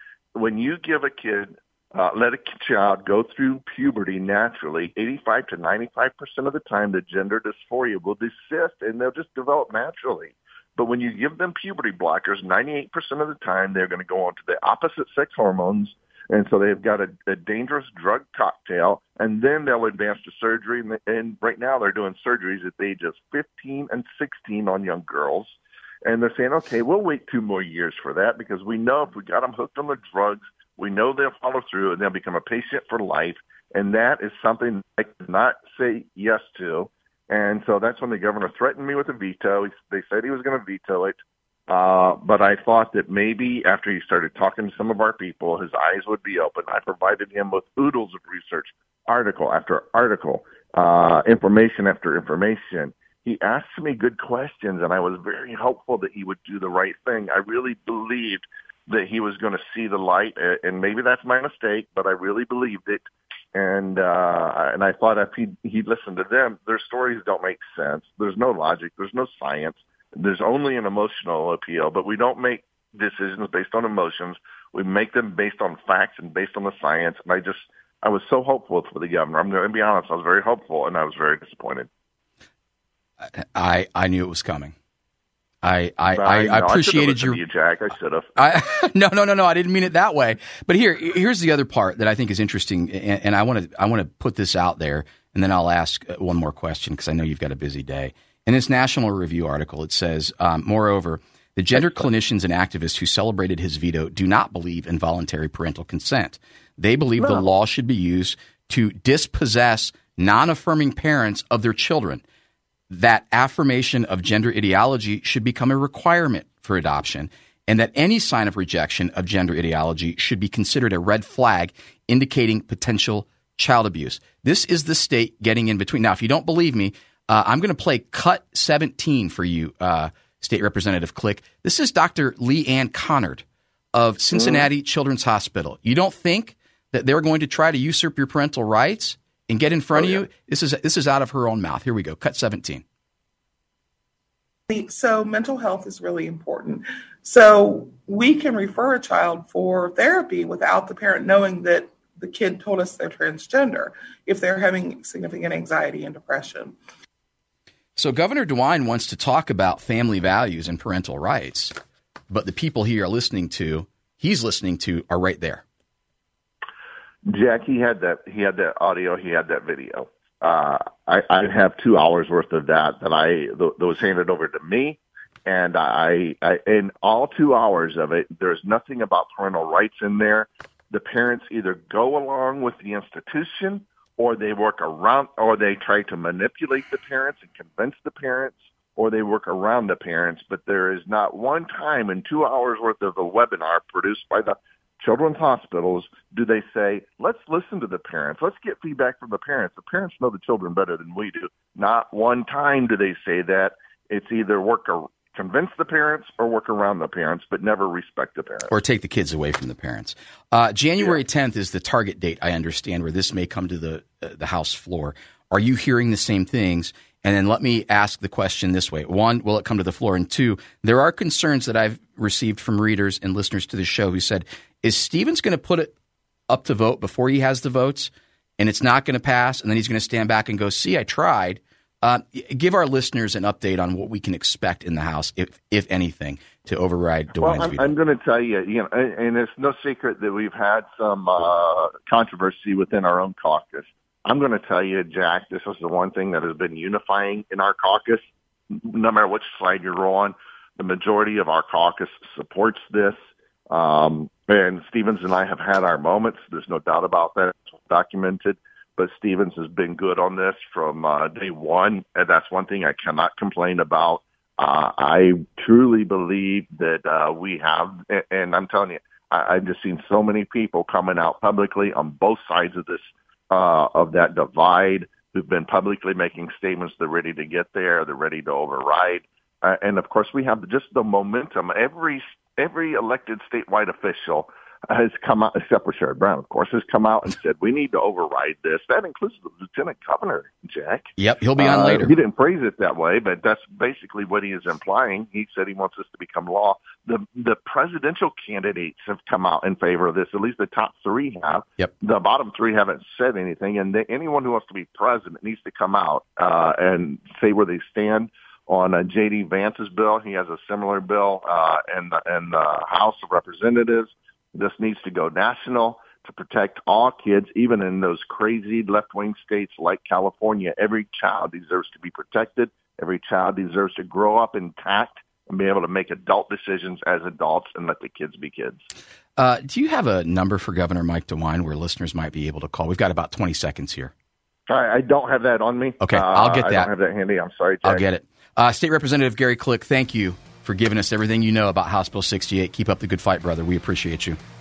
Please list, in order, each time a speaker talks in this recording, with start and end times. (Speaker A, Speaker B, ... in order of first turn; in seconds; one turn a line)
Speaker A: 0.3-63.0
Speaker A: 63.5-81.9
Speaker B: 83.2-84.7
Speaker B: 85.6-87.4
Speaker A: 86.1-88.4
Speaker B: 88.4-112.2
Speaker B: 112.9-142.8
Speaker A: 134.4-134.6
Speaker A: 139.9-140.2
Speaker C: 144.7-156.8
Speaker B: 158.0-161.7
Speaker B: 162.3-165.6
Speaker A: 167.3-208.7
Speaker B: 208.7-225.9
Speaker B: 226.5-237.9
Speaker A: 237.4-253.2
Speaker A: 253.7-328.9
Speaker B: 291.2-292.1
Speaker B: 329.4-334.1
Speaker A: 334.7-338.0
Speaker B: 336.0-336.9
Speaker B: 337.8-344.4